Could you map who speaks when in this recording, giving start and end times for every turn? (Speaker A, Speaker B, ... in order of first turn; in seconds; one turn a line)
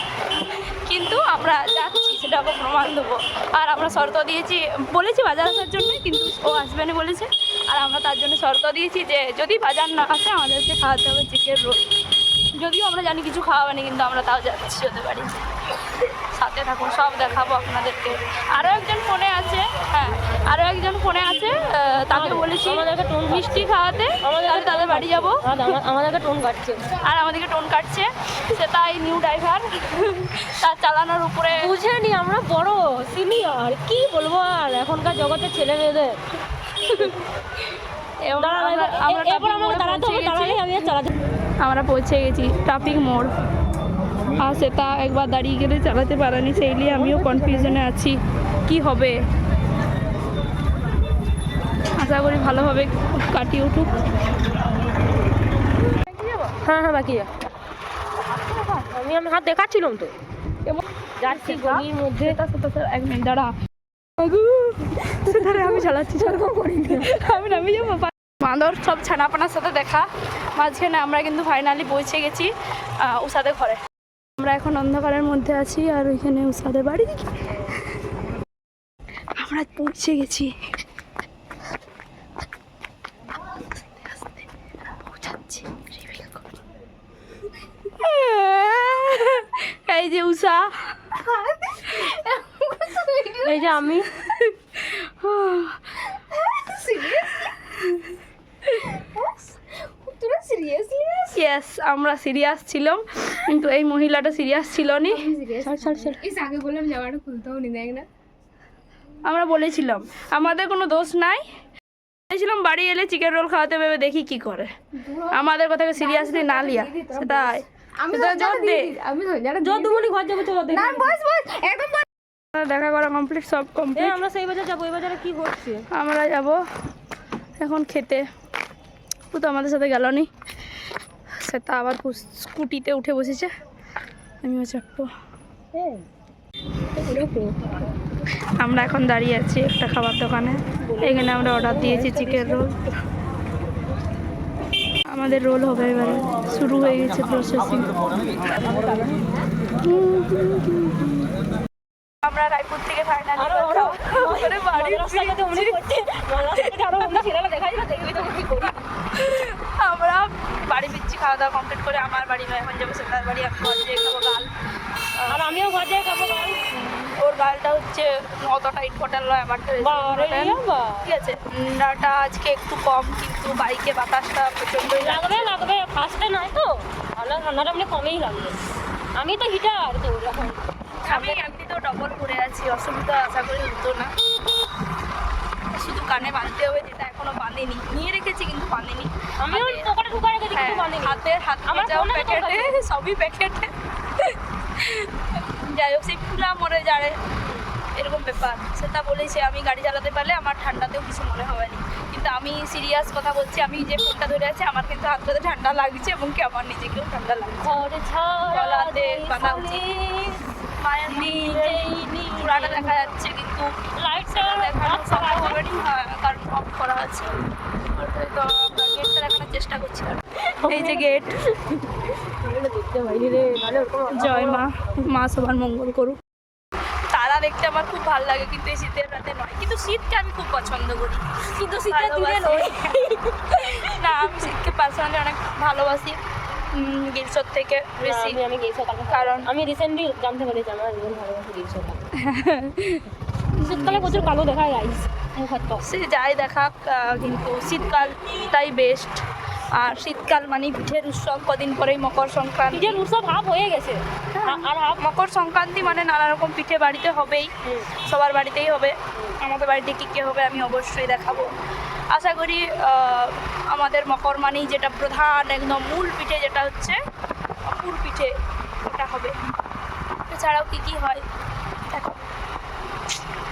Speaker A: 0.4-11.8
Speaker A: 12.6-15.4
Speaker A: 16.3-25.4
Speaker B: 22.1-23.7
Speaker B: 24.2-26.9
Speaker A: 27.0-31.7
Speaker B: 31.6-36.2
Speaker A: 36.8-40.9
Speaker B: 38.4-41.1
Speaker A: 41.6-43.3
Speaker A: 44.4-49.2
Speaker B: 46.8-47.8
Speaker A: 52.0-54.0
Speaker B: 56.5-57.3
Speaker B: 58.5-60.1
Speaker B: 61.2-62.4
Speaker A: 61.3-63.5
Speaker A: 64.2-73.8
Speaker B: 65.0-67.2
Speaker A: 74.4-78.0
Speaker A: 79.4-80.5
Speaker A: 83.5-84.5
Speaker A: 85.0-86.6
Speaker A: 87.9-91.2
Speaker C: 91.2-93.7
Speaker B: 93.4-94.1
Speaker A: 94.2-96.1
Speaker C: 96.2-97.5
Speaker A: 97.6-99.0
Speaker C: 99.0-101.4
Speaker A: 101.3-105.4
Speaker C: 105.3-108.1
Speaker B: 105.5-106.3
Speaker A: 109.2-111.5
Speaker A: 112.3-114.7
Speaker C: 115.0-115.4
Speaker A: 115.3-119.0
Speaker C: 116.0-120.1
Speaker B: 119.6-121.2
Speaker C: 120.7-122.0
Speaker A: 122.5-124.2
Speaker B: 124.0-125.9
Speaker A: 125.9-126.6
Speaker A: 127.6-128.3
Speaker A: 129.3-130.3
Speaker A: 131.4-133.5
Speaker A: 134.4-135.1
Speaker B: 135.8-136.1
Speaker B: 137.0-137.8
Speaker A: 138.6-142.9
Speaker B: 140.9-142.6
Speaker A: 145.1-147.9
Speaker A: 149.8-151.3
Speaker A: 152.2-155.8
Speaker B: 153.4-158.8
Speaker A: 156.5-157.1
Speaker A: 159.1-164.5
Speaker B: 165.3-166.7
Speaker A: 166.7-175.6
Speaker B: 169.8-171.1
Speaker B: 175.0-178.6
Speaker B: 179.2-181.5
Speaker A: 181.1-184.1
Speaker A: 185.7-189.9
Speaker B: 189.4-192.8
Speaker A: 190.5-197.2
Speaker A: 198.0-207.8
Speaker B: 207.6-210.5
Speaker A: 208.5-209.8
Speaker A: 210.8-217.3
Speaker B: 211.1-213.1
Speaker B: 214.0-215.6
Speaker A: 217.9-221.4
Speaker B: 220.5-225.2
Speaker A: 224.1-226.2
Speaker A: 227.1-236.2
Speaker B: 231.5-234.4
Speaker A: 236.7-238.4
Speaker B: 238.0-242.1
Speaker A: 239.1-239.5
Speaker A: 242.2-244.4
Speaker B: 243.6-245.9
Speaker A: 245.8-249.2
Speaker A: 249.8-253.0
Speaker B: 252.7-255.1
Speaker A: 254.3-257.5
Speaker B: 257.6-257.9
Speaker A: 258.0-261.5
Speaker A: 262.1-267.0
Speaker A: 267.7-269.4
Speaker A: 270.3-271.2
Speaker A: 271.9-272.2